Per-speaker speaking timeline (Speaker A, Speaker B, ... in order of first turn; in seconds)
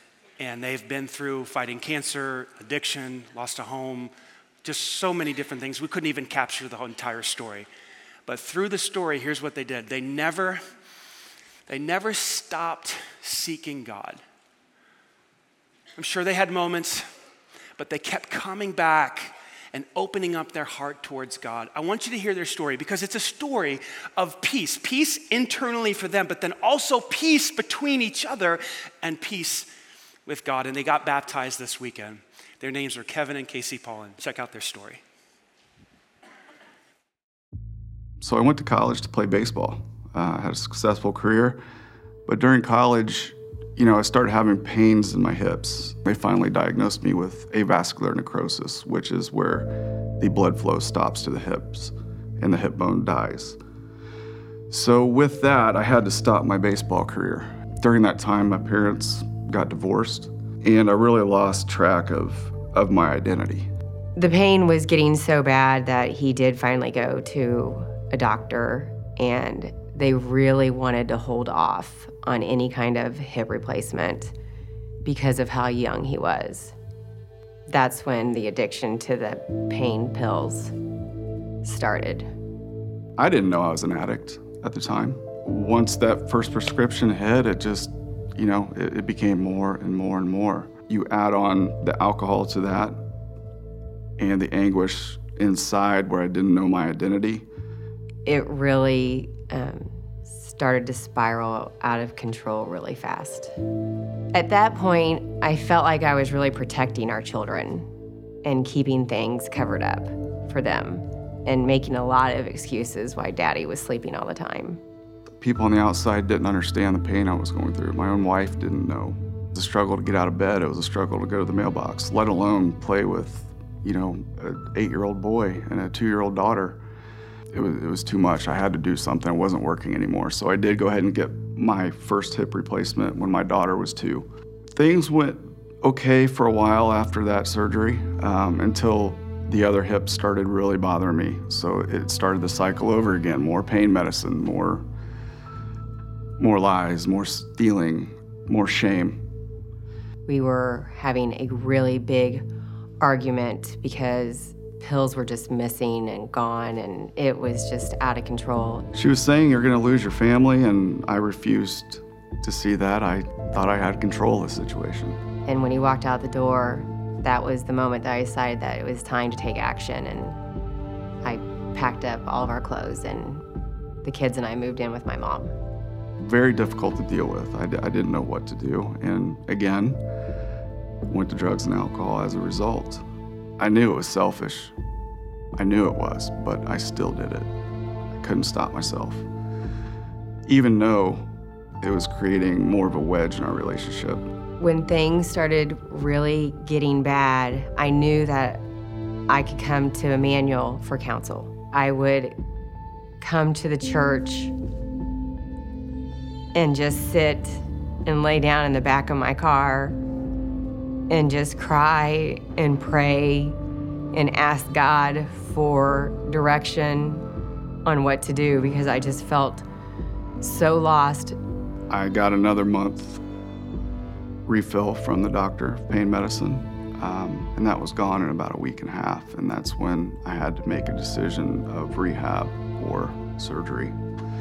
Speaker A: 0.4-4.1, 4.6-7.7, 8.3-10.6, 11.7-14.2, 16.0-17.1, 17.8-29.7, 30.3-35.0
Speaker B: 38.2-41.6, 42.3-53.6, 54.7-63.7, 83.2-93.0, 94.2-97.5, 115.4-126.8, 127.5-144.9, 146.4-149.2, 158.9-165.2, 176.2-180.0, 181.1-183.0, 183.6-184.7, 185.6-187.5, 188.2-189.2, 190.5-191.3, 191.8-194.3, 221.9-223.2, 224.5-234.0
Speaker C: 64.2-74.3, 75.0-76.8, 77.7-80.7, 81.6-82.3, 98.3-103.5, 104.3-107.9, 108.4-114.8, 150.3-152.5, 153.0-158.9, 165.5-170.4, 171.2-173.4, 174.0-175.5, 194.6-198.6, 199.3-202.4, 203.2-204.5, 206.6-210.0, 211.1-213.6, 214.1-217.2, 217.8-219.7, 220.4-221.4